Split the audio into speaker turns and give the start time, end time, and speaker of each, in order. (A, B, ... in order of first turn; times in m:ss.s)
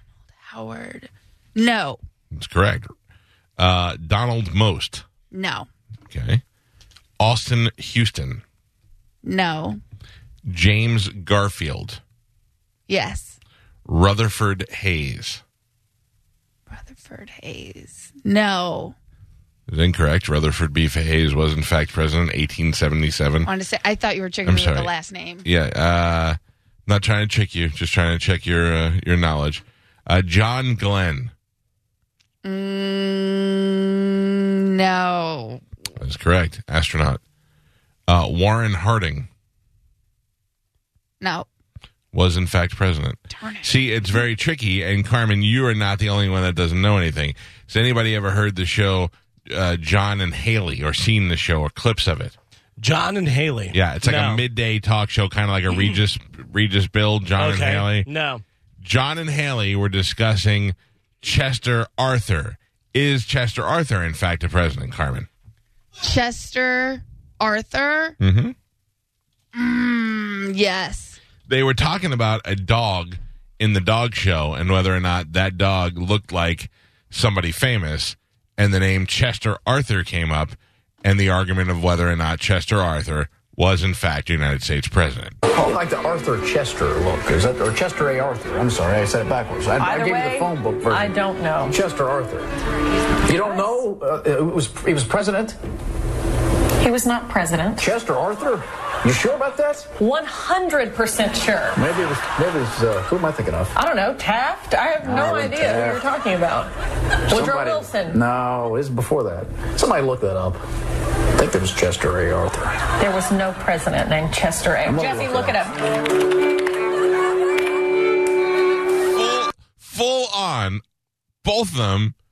0:00.4-0:02.0 A
0:02.3-0:02.9 B
0:03.6-0:05.0 B
0:05.3-0:05.7 A
0:06.1-0:06.4 B
0:07.2-0:08.4 B
0:09.2-0:09.8 A
0:10.5-0:12.0 B
0:12.9-0:13.4 A
0:13.9-0:15.4 B
0:16.7-0:19.0 A
0:19.7-0:23.5 B
0:23.4-0:25.5 A
0:24.4-0:24.9 B
0:25.4-0:31.3 B
0:32.4-0:35.6 A
0:36.0-0:37.2 B
0:38.1-0:39.3 B
0:41.2-0:41.5 A
0:42.1-0:52.4 B
0:43.3-0:43.7 A
0:52.8-0:54.4 C
0:53.7-0:58.1 B
0:57.4-0:58.4 C
0:58.8-1:05.3 B
1:06.0-1:08.2 A
1:08.2-1:08.6 B
1:09.6-1:11.2 A
1:11.5-1:25.4 B
1:25.5-1:32.5 D
1:29.8-1:31.8 E
1:33.2-1:35.6 D
1:36.8-1:37.9 E
1:37.8-1:40.0 D
1:40.0-1:41.8 E
1:41.7-1:43.8 D
1:43.7-1:46.7 E
1:45.0-1:46.2 D
1:47.3-1:48.2 E
1:47.3-1:50.6 D
1:51.3-1:52.9 D
1:52.9-1:55.8 E
1:54.8-1:55.7 D
1:59.1-2:00.8 B
2:01.4-2:02.2 B